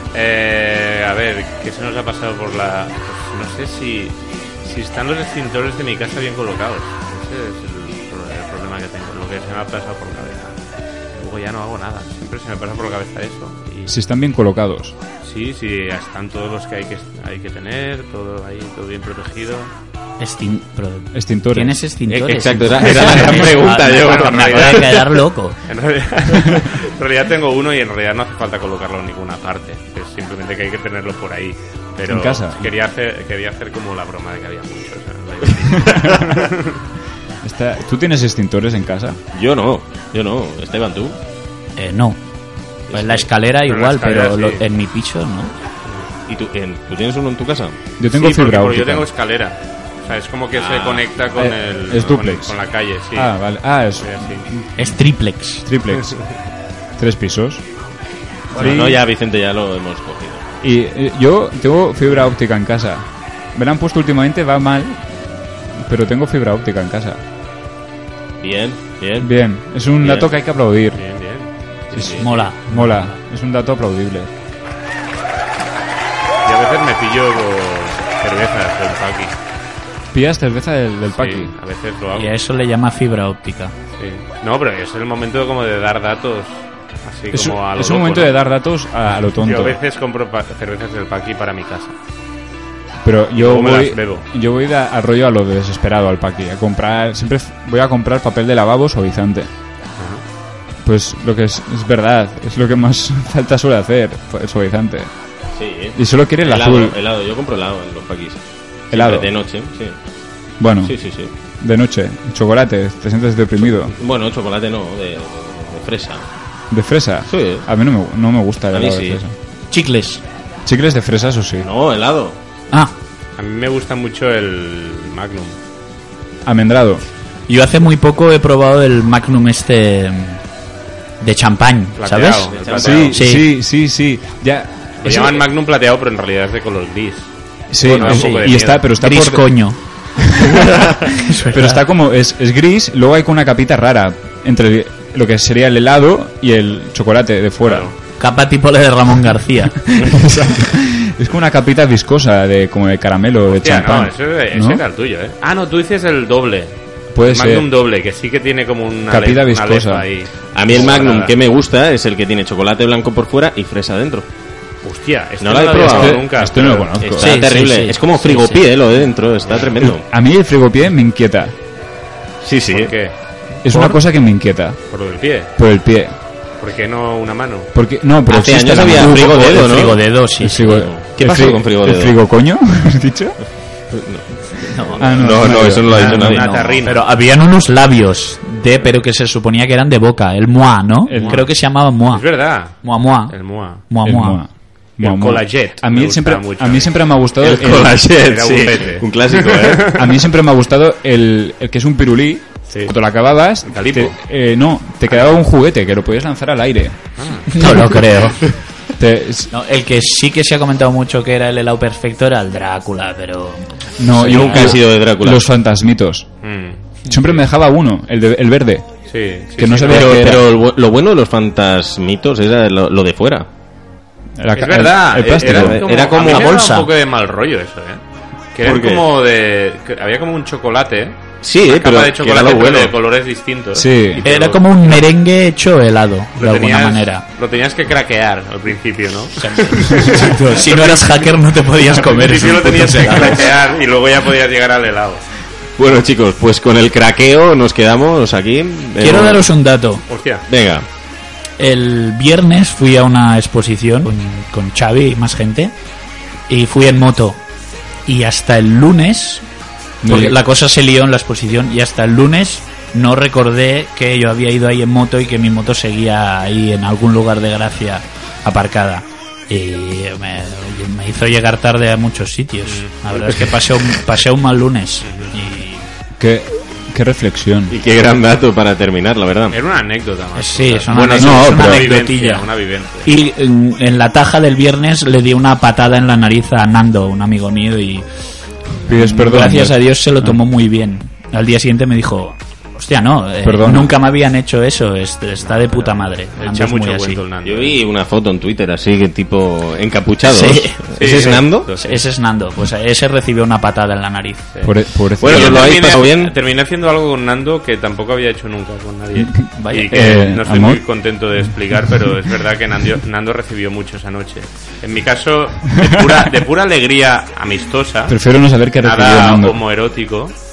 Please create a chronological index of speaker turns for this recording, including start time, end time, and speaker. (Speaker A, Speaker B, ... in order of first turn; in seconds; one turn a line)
Speaker A: 0.1-10.6
Speaker A: 11.2-13.9
Speaker B: 13.9-14.9
Speaker A: 15.2-19.7
Speaker C: 20.2-25.6
Speaker B: 21.1-21.8
Speaker D: 22.1-24.8
Speaker A: 22.8-25.1
Speaker A: 25.7-36.8
Speaker B: 32.0-32.7
Speaker B: 35.8-36.2
Speaker B: 37.4-39.2
Speaker D: 39.3-41.2
Speaker C: 41.8-42.2
Speaker D: 42.9-43.3
Speaker C: 42.9-45.5
Speaker A: 43.6-44.6
Speaker D: 46.3-47.8
Speaker B: 48.0-49.1
Speaker A: 48.1-53.3
Speaker D: 50.5-51.0
Speaker B: 51.3-52.6
Speaker B: 53.1-55.0
Speaker A: 54.0-54.5
Speaker C: 54.8-55.6
Speaker B: 55.6-56.3
Speaker B: 57.0-57.6
Speaker B: 58.5-59.0
Speaker D: 58.5-60.5
Speaker B: 60.6-65.0
Speaker B: 65.8-67.2
Speaker D: 68.4-69.3
Speaker B: 69.2-71.0
Speaker D: 70.0-70.3
Speaker A: 70.9-72.3
Speaker B: 71.9-74.3
Speaker D: 72.0-72.2
Speaker C: 72.1-73.2
Speaker A: 76.4-79.3
Speaker B: 80.1-81.5
Speaker A: 81.1-82.3
Speaker C: 82.1-83.7
Speaker A: 84.0-88.4
Speaker B: 87.3-89.8
Speaker A: 89.2-91.9
Speaker B: 93.0-99.5
Speaker A: 93.3-94.2
Speaker A: 100.0-100.2
Speaker B: 100.8-105.1
Speaker D: 105.6-110.0
Speaker B: 105.9-107.0
Speaker B: 108.9-109.3
Speaker B: 110.6-110.9
Speaker D: 110.8-111.3
Speaker B: 111.6-113.9
Speaker D: 113.9-116.2
Speaker B: 116.7-119.3
Speaker D: 117.3-117.7
Speaker D: 118.7-119.2
Speaker C: 119.7-120.2
Speaker B: 120.6-121.7
Speaker D: 121.6-122.4
Speaker A: 123.4-125.6
Speaker B: 126.4-127.0
Speaker C: 127.5-130.4
Speaker C: 131.2-132.5
Speaker A: 132.0-133.2
Speaker D: 132.5-133.2
Speaker B: 132.7-135.4
Speaker C: 133.1-133.5
Speaker A: 135.0-138.8
Speaker B: 137.7-147.9
Speaker C: 137.8-141.8
Speaker A: 147.6-147.9
Speaker C: 148.2-149.7
Speaker B: 149.8-154.8
Speaker A: 153.5-161.3
Speaker B: 157.1-157.7
Speaker B: 159.1-160.1
Speaker D: 160.5-164.2
Speaker A: 164.8-166.9
Speaker D: 165.4-166.2
Speaker B: 165.8-167.3
Speaker D: 167.0-170.0
Speaker C: 167.2-168.7
Speaker B: 170.0-171.5
Speaker D: 172.4-172.9
Speaker A: 172.7-173.1
Speaker B: 173.6-174.8
Speaker C: 173.6-174.0
Speaker A: 174.9-175.5
Speaker B: 175.6-176.2
Speaker A: 176.6-177.7
Speaker B: 177.7-179.5
Speaker D: 178.3-182.2
Speaker C: 178.7-180.8
Speaker B: 180.4-183.4
Speaker D: 183.9-186.8
Speaker C: 184.7-194.4
Speaker B: 185.0-186.3
Speaker A: 185.9-187.0
Speaker B: 191.1-191.4
Speaker A: 191.2-191.5
Speaker A: 192.1-193.8
Speaker B: 194.0-198.0
Speaker A: 195.0-200.0
Speaker D: 197.4-199.9
Speaker B: 199.9-207.0
Speaker A: 202.7-202.9
Speaker A: 203.6-204.2
Speaker A: 205.1-205.4
Speaker A: 207.2-207.5
Speaker C: 207.5-208.4
Speaker B: 209.0-209.5
Speaker C: 209.5-213.7
Speaker B: 214.0-216.3
Speaker D: 214.2-215.5
Speaker C: 214.2-214.5
Speaker A: 216.4-217.4
Speaker B: 217.1-218.9
Speaker A: 219.1-220.2
Speaker B: 219.6-220.4
Speaker D: 219.8-223.5
Speaker B: 224.4-225.9
Speaker A: 224.5-228.0
Speaker D: 225.4-226.6
Speaker C: 226.2-226.9
Speaker A: 228.5-235.1
Speaker D: 228.6-229.1
Speaker D: 231.4-232.9
Speaker B: 233.7-234.2
Speaker C: 234.2-237.2
Speaker A: 236.4-241.2
Speaker C: 239.4-243.4
Speaker A: 242.0-245.2
Speaker D: 245.8-249.5
Speaker C: 249.0-250.0
Speaker A: 250.1-250.4
Speaker D: 250.5-250.8
Speaker C: 251.6-255.7
Speaker C: 256.5-257.4
Speaker C: 258.1-259.4
Speaker C: 260.0-275.8
Speaker B: 260.0-260.4
Speaker A: 272.6-273.5
Speaker A: 275.0-275.3
Speaker B: 276.2-277.7
Speaker D: 277.7-279.6
Speaker A: 279.5-283.1
Speaker C: 280.4-282.5
Speaker D: 280.9-281.7
Speaker B: 281.0-281.8
Speaker C: 283.0-288.0
Speaker B: 288.8-290.4
Speaker C: 288.9-297.2
Speaker B: 293.4-293.9
Speaker A: 295.5-297.8
Speaker D: 297.4-301.7
Speaker C: 300.3-300.8
Speaker A: 300.9-302.0
Speaker C: 301.8-304.4
Speaker A: 304.5-318.2
Speaker B: 304.6-305.7
Speaker D: 305.2-306.3
Speaker B: 309.1-310.8
Speaker C: 309.6-310.1
Speaker B: 315.7-316.3
Speaker B: 318.1-319.6
Speaker A: 318.8-320.3